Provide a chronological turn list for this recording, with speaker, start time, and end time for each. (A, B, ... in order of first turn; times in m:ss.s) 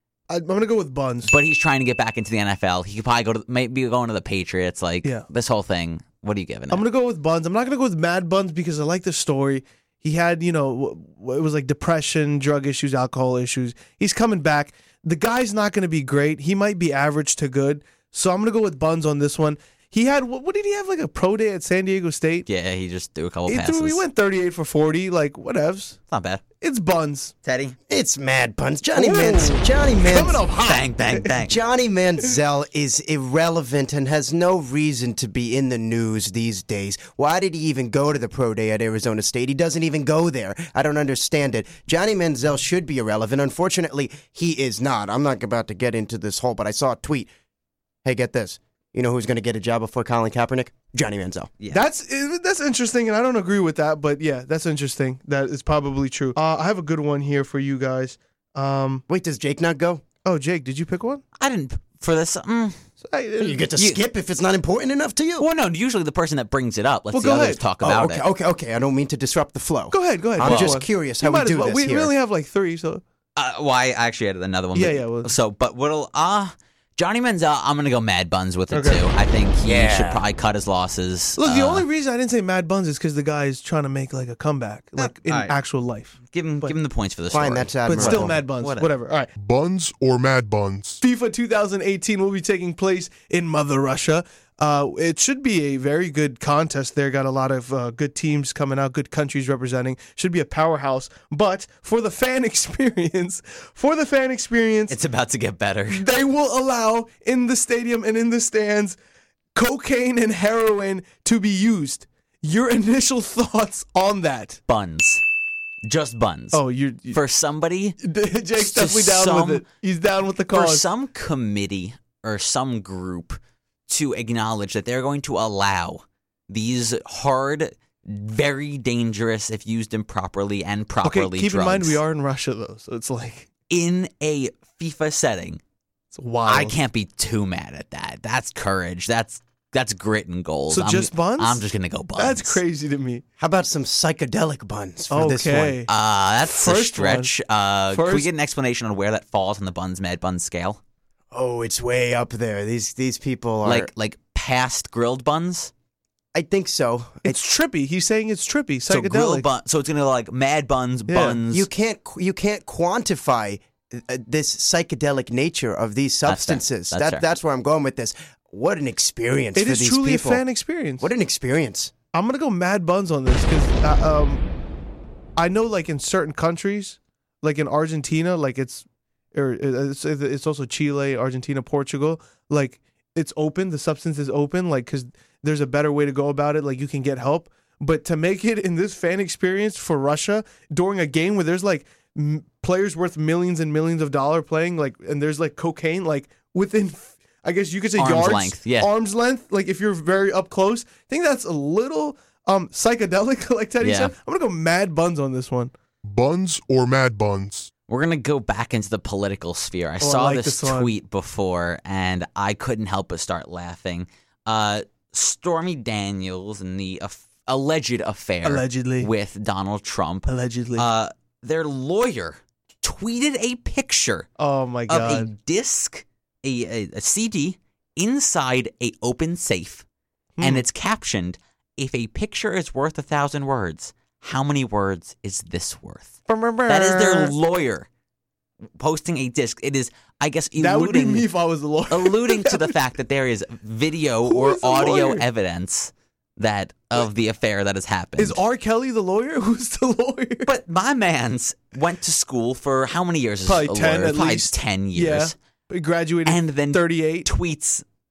0:00.3-0:01.3 A
0:01.3-0:06.8 B
0:06.7-0:22.5 A
0:22.5-0:24.0 B
0:23.5-0:26.0 A
0:26.1-0:26.4 B
0:26.6-0:27.3 A
0:27.4-0:27.8 B
0:27.9-0:30.4 C
0:28.9-0:31.4 A
0:30.6-0:31.6 B
0:31.4-0:47.3 C
0:48.0-0:51.5 C
0:51.7-0:59.0 A
0:59.1-1:00.0 C
1:00.2-1:01.2 A
1:01.4-1:02.8 B
1:03.0-1:03.6 A
1:03.4-1:05.5 C
1:05.4-1:08.2 B
1:07.1-1:07.6 A
1:07.8-1:12.1 C
1:09.9-1:13.0 A
1:10.4-1:10.8 B
1:13.4-1:21.8 B
1:14.7-1:15.3 A
1:18.7-1:19.0 A
1:19.6-1:20.2 C
1:21.4-1:26.7 A
1:25.0-1:25.6 B
1:26.2-1:28.9 B
1:27.3-1:28.4 C
1:27.9-1:29.3 A
1:29.4-1:31.0 D
1:31.0-1:45.0 A
1:44.9-1:46.0 B
1:45.9-1:49.0 A
1:49.6-1:54.6 A
1:54.7-1:55.2 B
1:55.9-1:58.0 B
1:56.5-1:57.2 A
1:58.0-2:00.8 A
1:58.6-1:59.6 B
2:00.5-2:12.0 B
2:11.0-2:13.5 A
2:13.7-2:15.6 B
2:16.1-2:16.8 A
2:16.5-2:22.6 B
2:20.7-2:23.2 A
2:23.4-2:25.8 C
2:25.1-2:25.9 A
2:25.9-2:30.8 B
2:26.4-2:27.3 A
2:27.9-2:28.3 A
2:31.3-2:33.9 C
2:33.6-2:35.7 B
2:36.3-2:37.4 C
2:37.2-2:39.5 A
2:38.9-2:41.7 B
2:41.1-2:41.4 A
2:41.5-2:50.4 C
2:46.3-2:47.2 B
2:49.6-2:51.1 A
2:51.0-2:51.9 C
2:52.1-2:54.4 A
2:55.4-3:25.7 A
3:18.0-3:18.9 B
3:23.8-3:24.1 B
3:26.0-3:27.7 D
3:27.9-3:44.3 B
3:30.0-3:30.9 A
3:38.4-3:39.1 A
3:40.3-3:40.8 A
3:44.4-3:45.3 A
3:44.9-3:49.8 B
3:50.4-3:50.6 A
3:50.4-3:56.2 B
3:56.3-3:57.3 A
3:56.7-3:57.9 B
3:58.8-4:01.3 B
4:00.6-4:02.8 A
4:01.9-4:08.4 B
4:04.3-4:05.2 A
4:08.2-4:10.5 A
4:10.4-4:15.3 B
4:13.5-4:17.3 A
4:16.2-4:17.8 B